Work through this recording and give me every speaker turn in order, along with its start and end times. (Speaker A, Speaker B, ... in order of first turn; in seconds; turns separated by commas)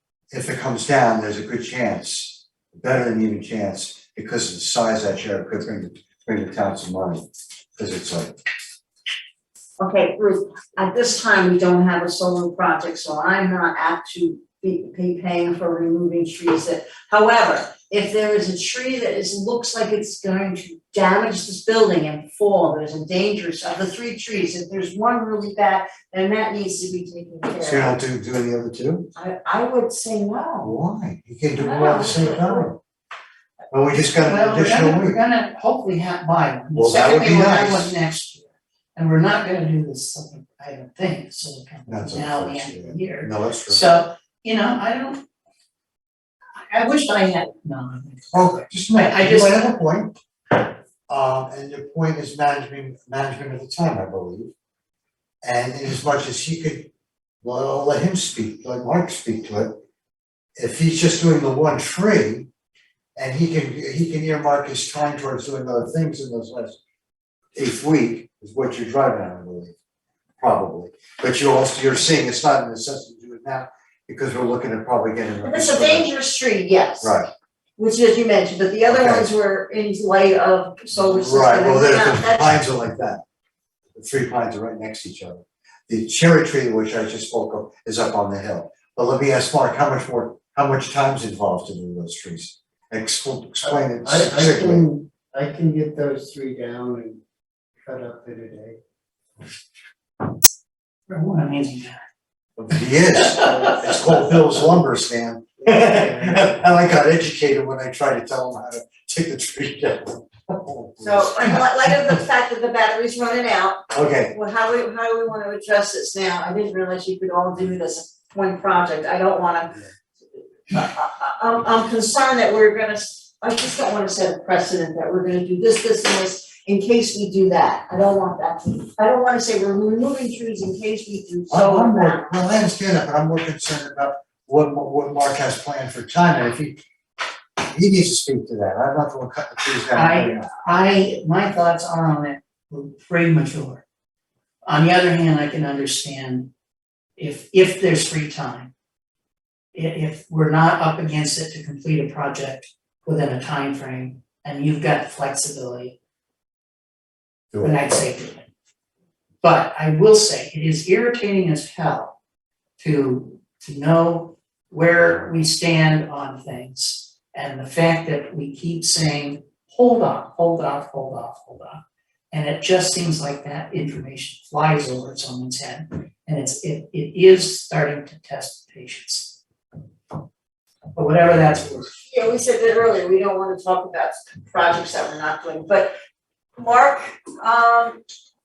Speaker A: 0.3-8.4, Speaker B: 9.8-28.0, Speaker A: 27.6-29.1, Speaker B: 29.1-30.7, Speaker A: 30.6-32.8, Speaker B: 31.6-32.7, Speaker A: 33.7-35.2, Speaker C: 34.1-45.2, Speaker A: 36.7-37.9, Speaker A: 41.9-43.8, Speaker C: 46.5-49.6, Speaker A: 48.3-50.1, Speaker A: 51.1-54.5, Speaker A: 55.4-56.9, Speaker A: 57.4-59.8, Speaker A: 60.6-62.5, Speaker A: 63.1-66.8, Speaker A: 67.5-69.7, Speaker A: 70.4-76.1, Speaker B: 75.4-77.2, Speaker A: 77.0-77.3, Speaker B: 77.8-82.4, Speaker A: 78.9-79.3, Speaker A: 80.9-83.2, Speaker A: 83.9-94.8, Speaker D: 93.6-97.2, Speaker D: 97.8-98.8, Speaker C: 101.1-102.0, Speaker A: 102.6-112.2, Speaker C: 103.1-103.9, Speaker D: 105.6-106.4, Speaker B: 111.0-119.8, Speaker A: 113.9-114.3, Speaker B: 120.7-132.3, Speaker A: 131.5-136.8, Speaker A: 137.6-140.5, Speaker C: 139.9-143.8, Speaker C: 144.7-146.5, Speaker C: 147.2-148.7, Speaker C: 149.7-155.9, Speaker C: 157.6-158.4, Speaker C: 159.4-162.1, Speaker C: 162.8-171.8, Speaker C: 172.3-179.4, Speaker C: 180.9-181.9, Speaker B: 182.0-185.9, Speaker B: 186.6-188.0